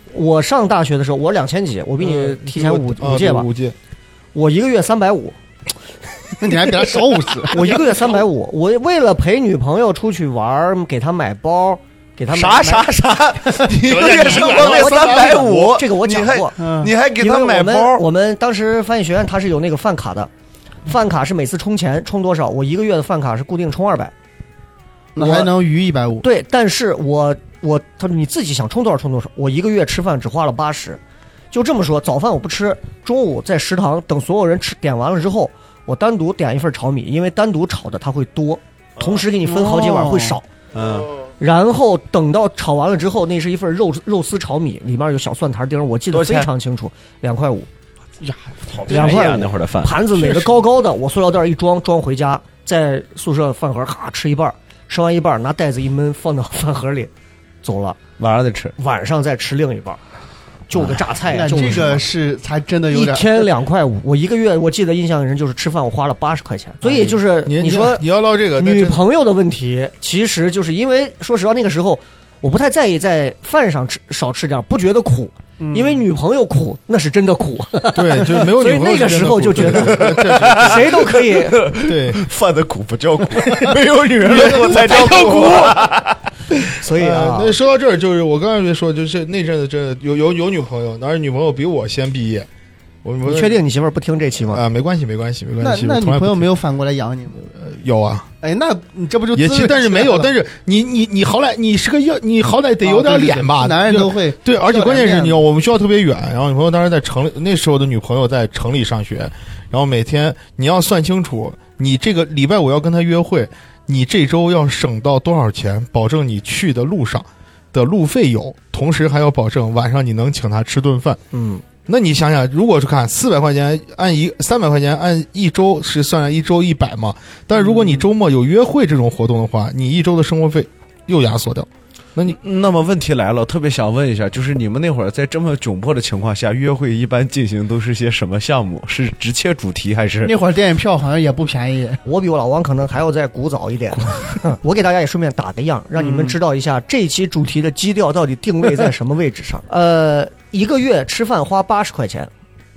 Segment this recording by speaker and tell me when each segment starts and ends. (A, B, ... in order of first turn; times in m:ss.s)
0:00.1-0:03.5 A
0:02.0-0:03.8 B
0:04.3-0:05.4 A
0:06.4-0:07.7 C
0:07.5-0:12.9 A
0:12.3-0:18.0 D
0:13.8-0:15.4 B
0:14.1-0:16.6 A
0:16.6-0:16.9 C
0:17.2-0:20.3 A
0:20.9-0:24.1 A
0:25.2-0:26.2 C
0:25.2-0:25.5 A
0:26.2-0:31.0 A
0:31.5-0:40.5 A
0:39.4-0:40.4 C
0:40.7-0:41.1 D
0:41.4-0:47.7 A
0:46.1-0:46.5 D
0:48.2-0:49.3 C
0:48.8-0:50.0 D
0:48.9-0:57.1 A
0:50.1-0:50.6 B
0:57.6-0:58.0 A
0:58.2-0:58.8 D
0:58.8-1:00.0 A
1:00.7-1:02.0 A
1:01.3-1:03.5 C
1:02.9-1:08.0 A
1:07.4-1:09.0 B
1:08.6-1:21.6 A
1:15.6-1:16.0 C
1:17.9-1:21.1 B
1:19.8-1:26.2 D
1:21.8-1:22.2 B
1:23.5-1:25.9 B
1:26.5-1:32.5 B
1:26.7-1:27.6 A
1:33.0-1:33.6 B
1:33.2-1:34.6 A
1:34.5-1:36.5 B
1:35.6-1:37.5 C
1:37.4-1:38.3 B
1:38.4-1:40.3 C
1:39.3-2:01.2 B
1:42.8-1:45.4 C
2:01.3-2:01.6 A
2:01.9-2:12.4 B
2:12.3-2:20.4 D
2:20.2-2:22.0 C
2:22.0-2:32.3 A
2:26.0-2:26.4 C